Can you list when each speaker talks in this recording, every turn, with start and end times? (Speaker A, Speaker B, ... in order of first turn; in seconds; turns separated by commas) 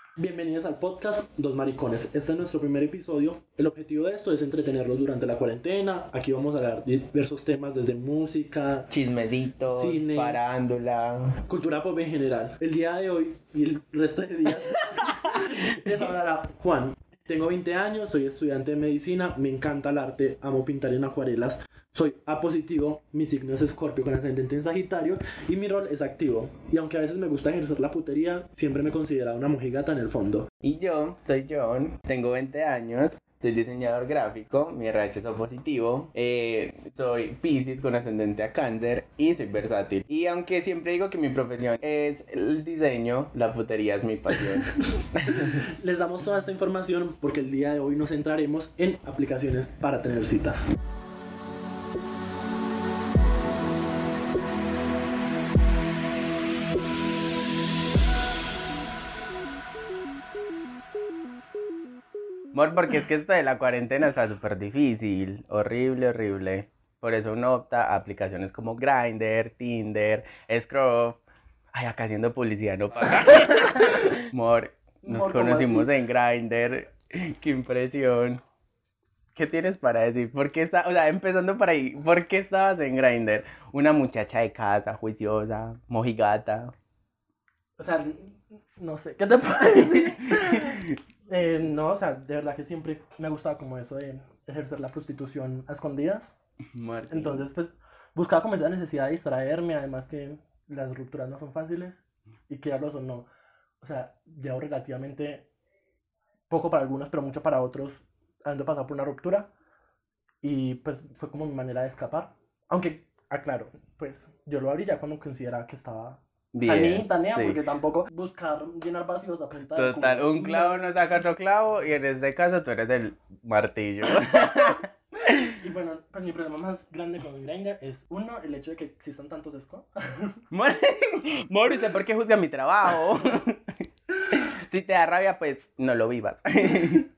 Speaker A: 0.2-8.9, Speaker B: 8.9-11.4, Speaker A: 9.7-10.4, Speaker A: 11.5-30.5, Speaker B: 14.7-15.2, Speaker B: 30.6-44.6, Speaker A: 45.0-50.7, Speaker B: 45.2-45.6, Speaker B: 62.5-71.2, Speaker B: 71.8-78.4, Speaker A: 75.0-75.9, Speaker B: 79.3-86.7, Speaker A: 87.8-96.3, Speaker B: 89.7-91.0, Speaker B: 96.7-97.5, Speaker A: 97.1-103.3, Speaker A: 103.8-105.5, Speaker A: 106.5-109.5, Speaker A: 110.4-120.9, Speaker B: 116.5-117.6, Speaker B: 119.7-125.4, Speaker A: 125.4-130.4, Speaker B: 130.5-137.1